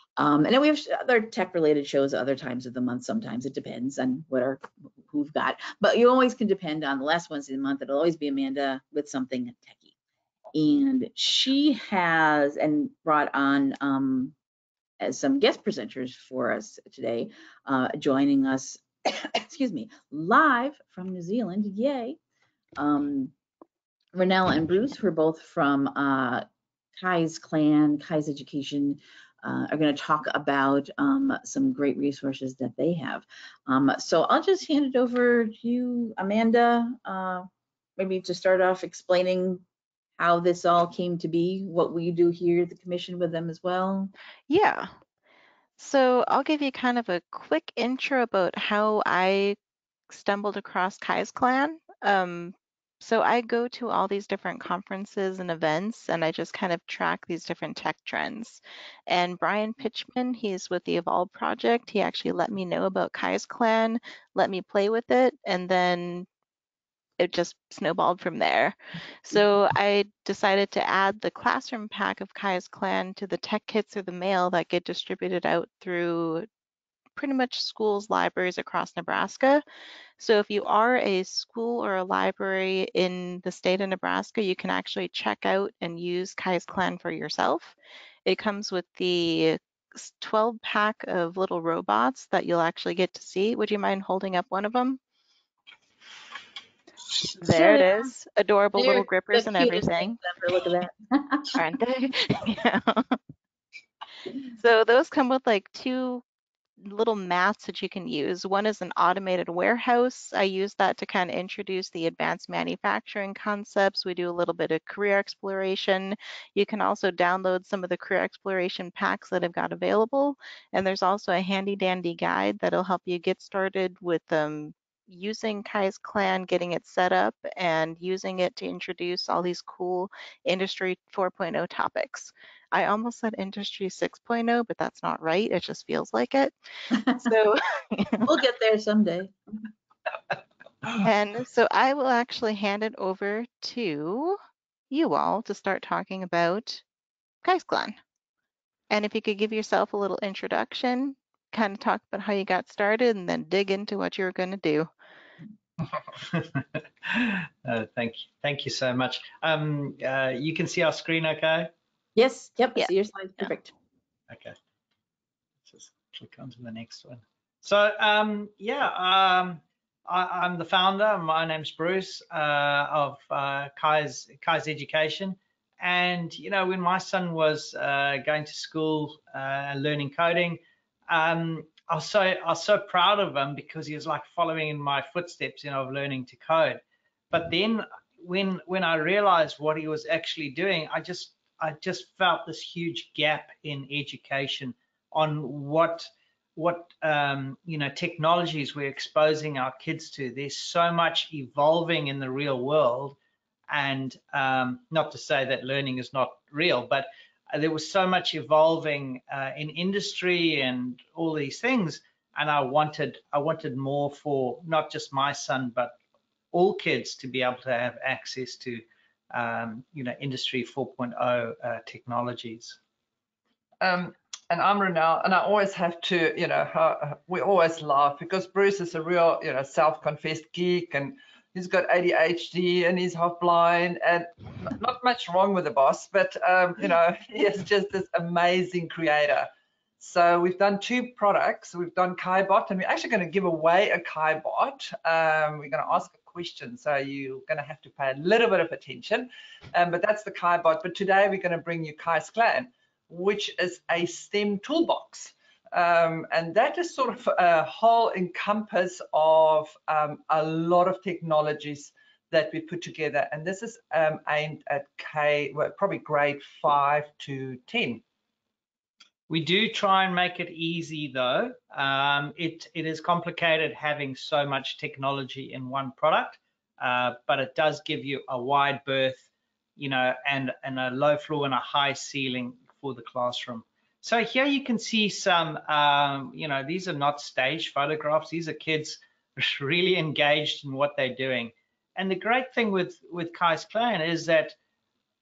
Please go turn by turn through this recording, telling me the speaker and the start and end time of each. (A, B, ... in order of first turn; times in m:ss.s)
0:00.2-0:09.9 A
0:10.5-0:14.3 A
0:15.0-0:22.2 A
0:22.8-0:23.3 A
0:24.1-0:26.4 A
0:27.0-0:39.6 A
0:40.2-0:44.1 A
0:44.5-0:44.9 B
0:45.8-0:49.6 B
0:50.1-1:06.3 B
1:07.2-1:16.5 B
1:17.2-1:19.6 B
1:20.2-1:35.0 B
1:37.4-1:40.2 B
1:37.4-1:38.1 A
1:38.8-1:41.6 A
1:41.5-1:43.2 B
1:44.6-1:46.2 B
1:46.8-2:18.3 B
2:18.2-2:19.3 A
2:21.0-2:24.4 B
2:24.9-2:26.8 B
2:27.4-2:28.0 B
2:28.9-2:34.9 B
2:36.2-2:41.7 C
2:42.2-2:43.7 A
2:44.3-2:44.6 C
2:45.6-3:23.2 C
3:23.7-3:35.9 C
3:36.5-3:42.8 C
3:43.8-4:28.0 D
4:29.3-4:39.2 C
4:39.8-4:54.6 C